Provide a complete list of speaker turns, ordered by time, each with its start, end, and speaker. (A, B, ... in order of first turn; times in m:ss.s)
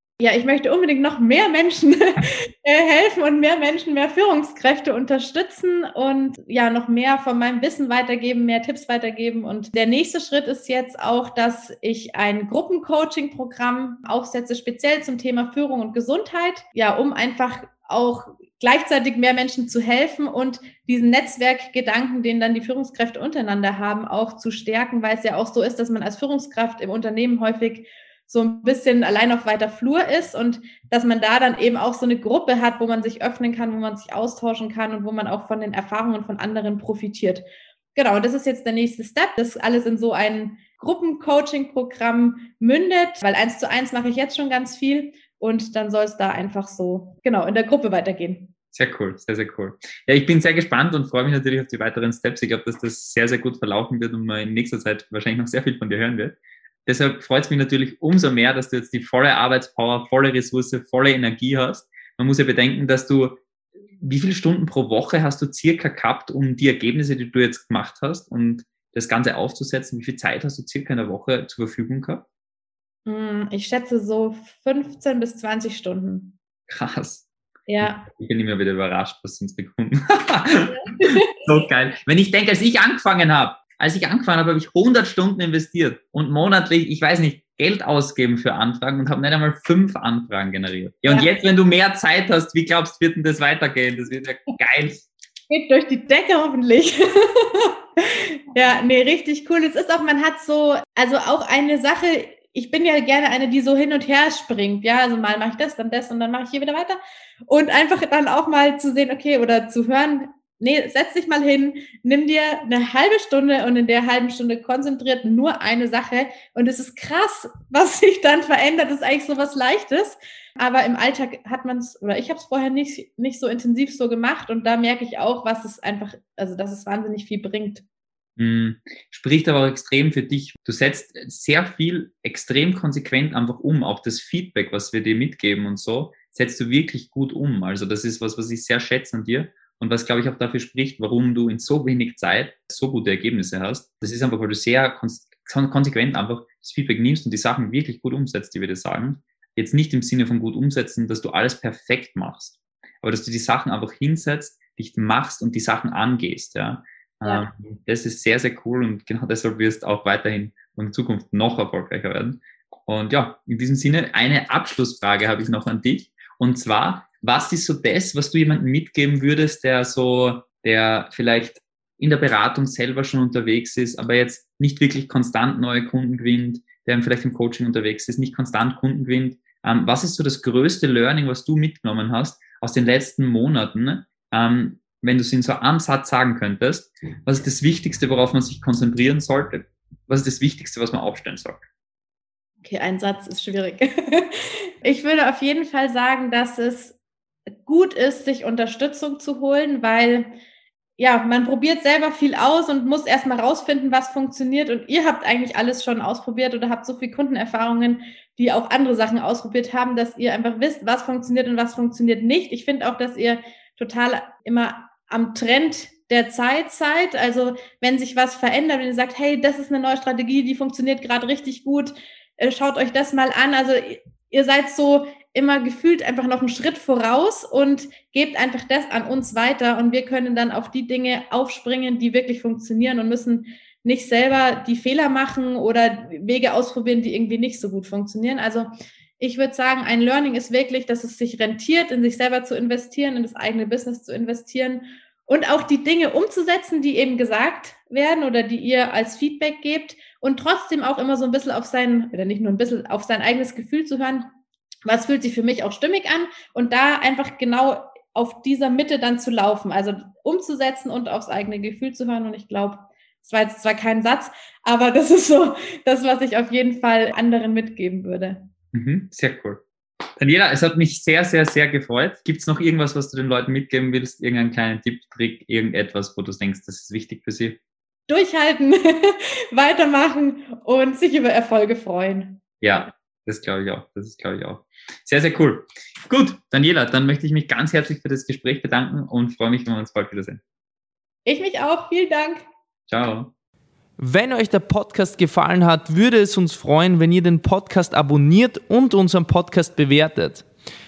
0:00.2-0:37.4 A
0:37.9-0:48.5 A
0:48.7-1:03.4 B
1:04.0-1:12.2 B
1:13.0-1:16.3 A
1:16.7-1:17.2 B
1:17.7-1:18.0 A
1:17.8-1:35.1 B
1:20.7-1:21.2 A
1:35.5-2:07.8 A
2:08.4-3:11.6 B
3:12.6-3:17.0 A
3:17.6-3:20.4 A
3:21.0-3:58.7 A
3:59.2-4:14.2 A
4:14.9-4:28.4 A
4:28.7-4:29.6 B
4:30.2-4:37.6 B
4:38.1-4:42.9 A
4:42.6-4:50.4 B
4:51.2-4:52.4 A
4:52.9-4:53.3 B
4:54.0-5:00.4 C